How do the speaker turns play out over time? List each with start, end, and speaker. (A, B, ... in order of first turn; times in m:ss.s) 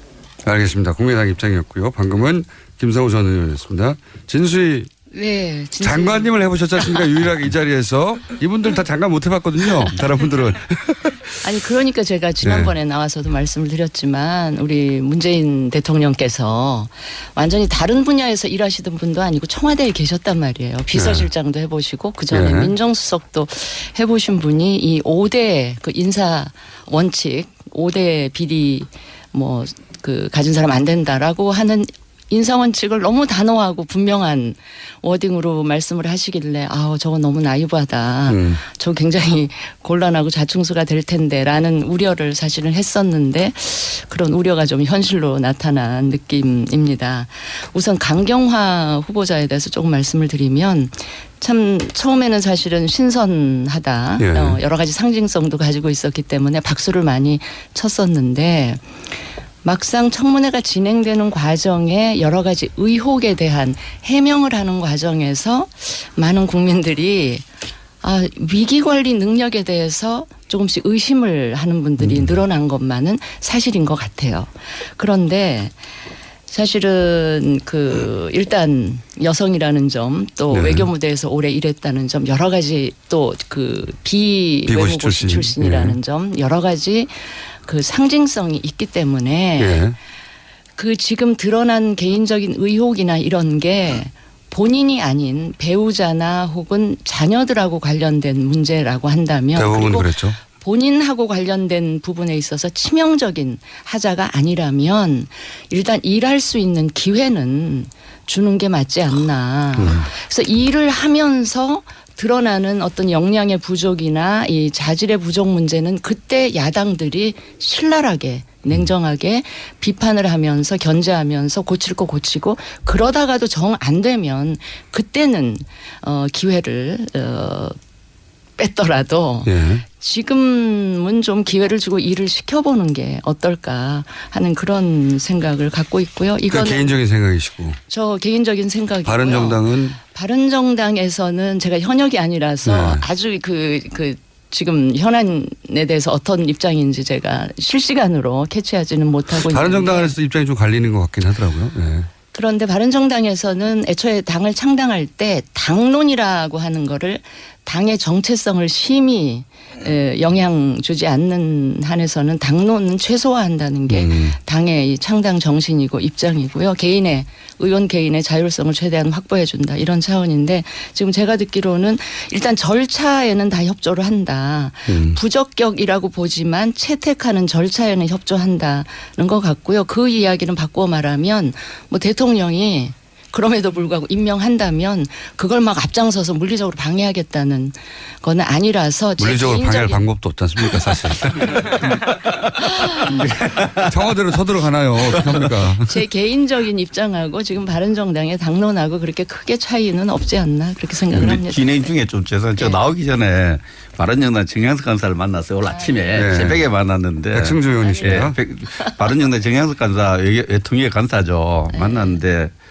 0:00.4-0:04.9 A
0:05.1-0:06.4 B
0:05.8-0:11.4 A
0:11.4-0:58.9 B
0:12.4-0:12.7 A
0:20.9-0:21.3 A
0:22.3-0:22.7 A
0:38.3-0:38.6 A
0:54.2-0:54.6 A
0:59.6-1:07.4 B
1:08.0-1:15.8 B
1:12.0-1:12.4 A
1:16.5-1:29.8 B
1:20.5-1:20.9 A
1:24.6-1:26.0 A
1:29.6-1:30.0 A
1:30.8-2:07.7 B
1:39.6-1:40.4 A
1:49.8-1:50.1 A
2:08.6-2:17.0 B
2:09.4-2:09.8 A
2:16.5-2:17.8 A
2:17.9-2:30.1 B
2:19.0-2:20.0 A
2:22.6-2:23.0 A
2:29.4-2:32.1 A
2:32.3-3:10.0 B
2:43.9-2:44.4 A
2:54.9-2:55.2 A
3:09.2-3:11.6 A
3:12.6-3:13.2 B
3:13.0-3:14.2 C
3:13.8-3:16.0 A
3:15.1-3:15.5 C
3:15.8-3:22.0 B
3:21.1-3:32.5 C
3:22.6-3:22.8 B
3:25.6-3:26.3 B
3:26.2-3:26.6 A
3:27.3-3:28.4 A
3:27.8-3:29.2 B
3:31.7-3:32.2 B